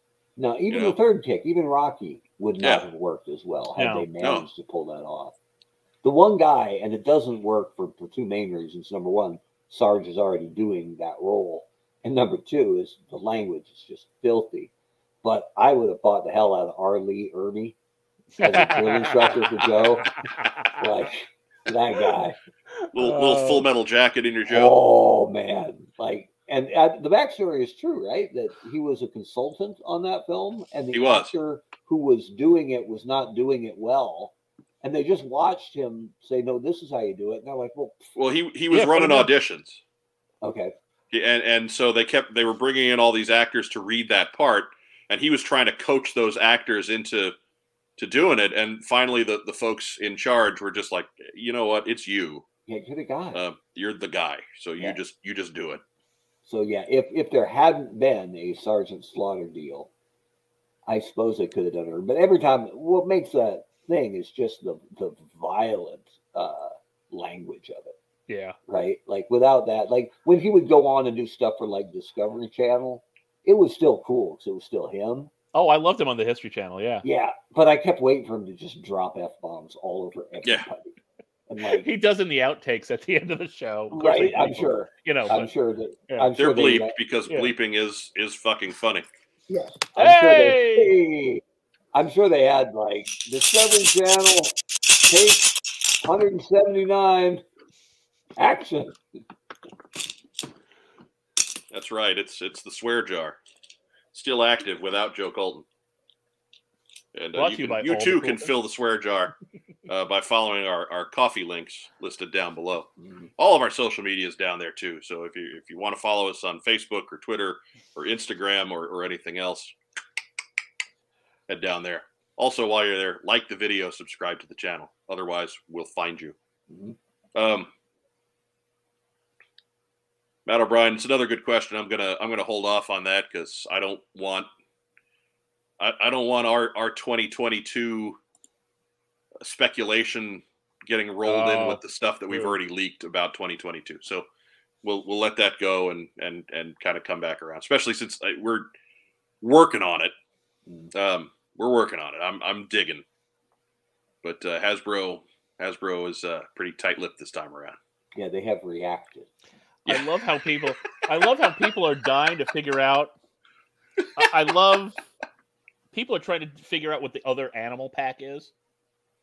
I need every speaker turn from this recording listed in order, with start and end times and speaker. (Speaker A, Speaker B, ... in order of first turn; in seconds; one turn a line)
Speaker A: 0.4-5.3
Speaker B: 0.7-1.0
Speaker C: 3.8-4.1
Speaker B: 4.2-4.5
Speaker A: 6.0-14.7
Speaker A: 15.2-17.8
Speaker C: 18.4-20.8
Speaker A: 18.4-22.4
Speaker C: 22.8-23.7
Speaker B: 22.9-24.7
Speaker A: 24.5-38.0
Speaker B: 30.9-31.3
Speaker B: 38.1-39.8
Speaker C: 38.7-39.3
Speaker A: 40.4-40.7
Speaker B: 41.1-47.4
Speaker B: 48.0-52.5
Speaker A: 52.7-53.4
Speaker B: 53.3-55.8
Speaker A: 56.5-59.9
Speaker A: 60.9-68.0
Speaker C: 68.3-68.6
Speaker A: 68.7-75.3
Speaker C: 75.5-77.0
Speaker A: 77.0-80.9
Speaker B: 80.4-80.7
Speaker A: 81.5-81.9
Speaker C: 81.7-85.5
Speaker A: 83.9-87.0
Speaker B: 86.4-89.1
Speaker A: 89.5-91.4
Speaker C: 90.0-90.9
Speaker A: 91.9-95.5
Speaker A: 96.0-97.4
Speaker A: 98.4-99.0
Speaker B: 101.7-103.4
Speaker B: 104.1-105.7
Speaker B: 107.1-109.3
Speaker C: 107.3-108.5
Speaker B: 109.9-119.8
Speaker A: 113.0-113.3
Speaker B: 121.5-126.3
Speaker A: 126.7-127.0
Speaker B: 127.3-127.7
Speaker B: 130.5-134.5
Speaker B: 135.8-138.2
Speaker B: 139.4-144.3
Speaker C: 141.2-142.6
Speaker B: 144.8-148.7
Speaker B: 149.4-150.1
Speaker A: 150.7-150.9
Speaker B: 150.9-153.1
Speaker B: 154.2-157.8
Speaker A: 158.2-159.3
Speaker C: 159.9-163.1
Speaker C: 164.2-165.0
Speaker C: 165.9-168.5